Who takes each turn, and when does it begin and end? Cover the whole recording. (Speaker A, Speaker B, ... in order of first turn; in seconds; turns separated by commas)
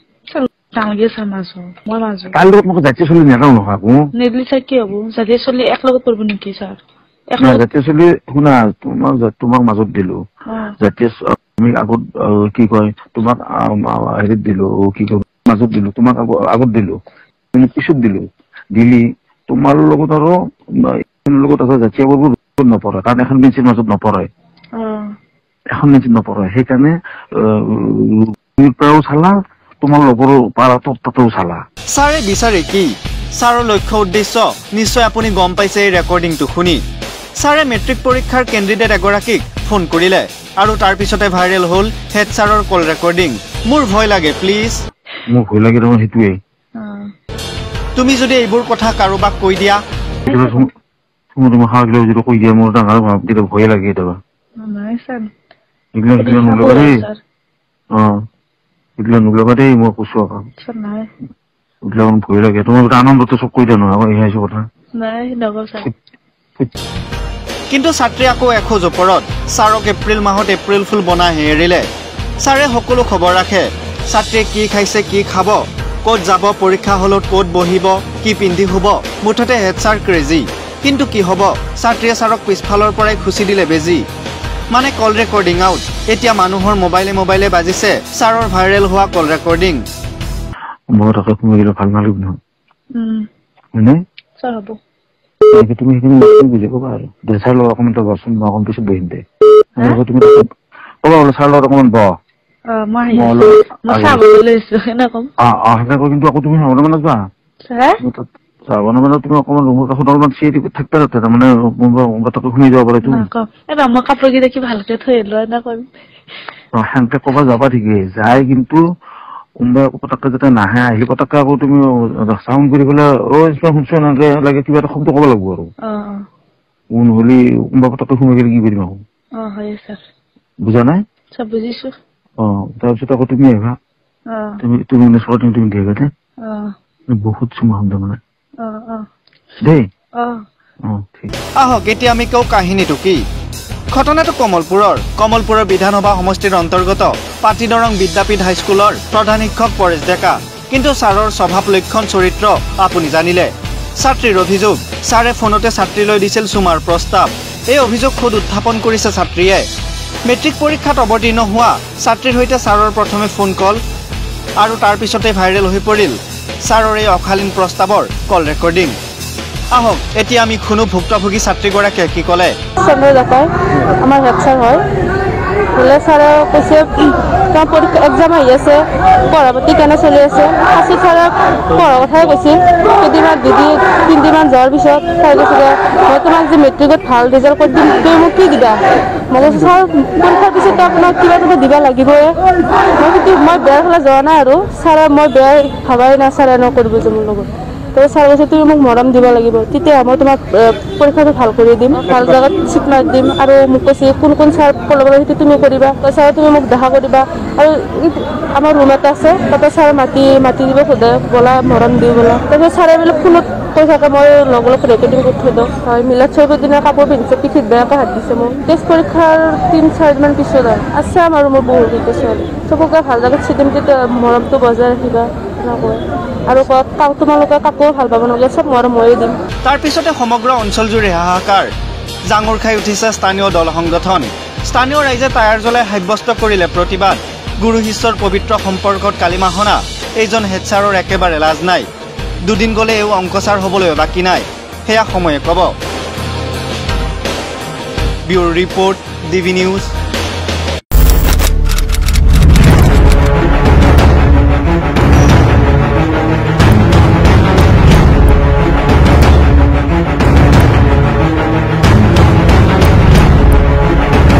Speaker A: 0.3-2.3, Speaker B: 2.3-4.0, Speaker A: 4.2-6.8, Speaker A: 7.3-7.6, Speaker B: 7.4-10.2, Speaker A: 10.5-10.7, Speaker B: 10.8-16.9, Speaker B: 17.5-24.3, Speaker A: 24.7-25.1, Speaker B: 25.8-31.6, Speaker C: 31.9-36.8, Speaker C: 37.4-44.8, Speaker B: 45.3-46.4, Speaker A: 46.8-47.1, Speaker C: 48.0-49.8, Speaker A: 50.2-50.6, Speaker B: 50.2-50.7, Speaker B: 51.4-54.2, Speaker A: 54.6-55.3, Speaker B: 55.9-57.0, Speaker A: 56.2-57.2, Speaker B: 57.9-58.2, Speaker B: 59.0-60.5, Speaker A: 60.6-61.1, Speaker B: 61.9-64.6, Speaker A: 65.0-65.9, Speaker C: 67.7-71.8, Speaker C: 72.4-84.0, Speaker C: 84.7-89.8, Speaker B: 90.9-92.3, Speaker A: 93.0-93.2, Speaker A: 94.4-94.8, Speaker B: 95.5-99.2, Speaker B: 99.8-100.4, Speaker B: 101.0-102.1, Speaker A: 102.7-105.3, Speaker B: 103.1-104.2, Speaker B: 105.4-107.2, Speaker A: 107.7-108.0, Speaker B: 108.0-113.3, Speaker A: 113.0-115.9, Speaker B: 116.8-118.8, Speaker B: 119.6-125.7, Speaker A: 125.8-126.2, Speaker B: 126.9-129.0, Speaker A: 129.4-130.0, Speaker B: 130.6-131.0, Speaker A: 131.3-131.9, Speaker B: 132.4-133.8, Speaker A: 134.3-134.6, Speaker B: 134.6-136.1, Speaker A: 136.4-136.7, Speaker B: 137.2-138.2, Speaker A: 138.6-139.0, Speaker B: 140.8-141.3, Speaker C: 141.6-143.2, Speaker C: 143.9-159.7, Speaker C: 160.2-163.8, Speaker C: 164.6-168.9, Speaker C: 169.7-172.5, Speaker D: 172.8-174.8, Speaker D: 175.8-188.8, Speaker D: 189.3-192.3, Speaker D: 192.9-229.3, Speaker C: 229.6-231.7, Speaker C: 232.3-241.9, Speaker C: 242.4-245.7, Speaker C: 248.3-249.9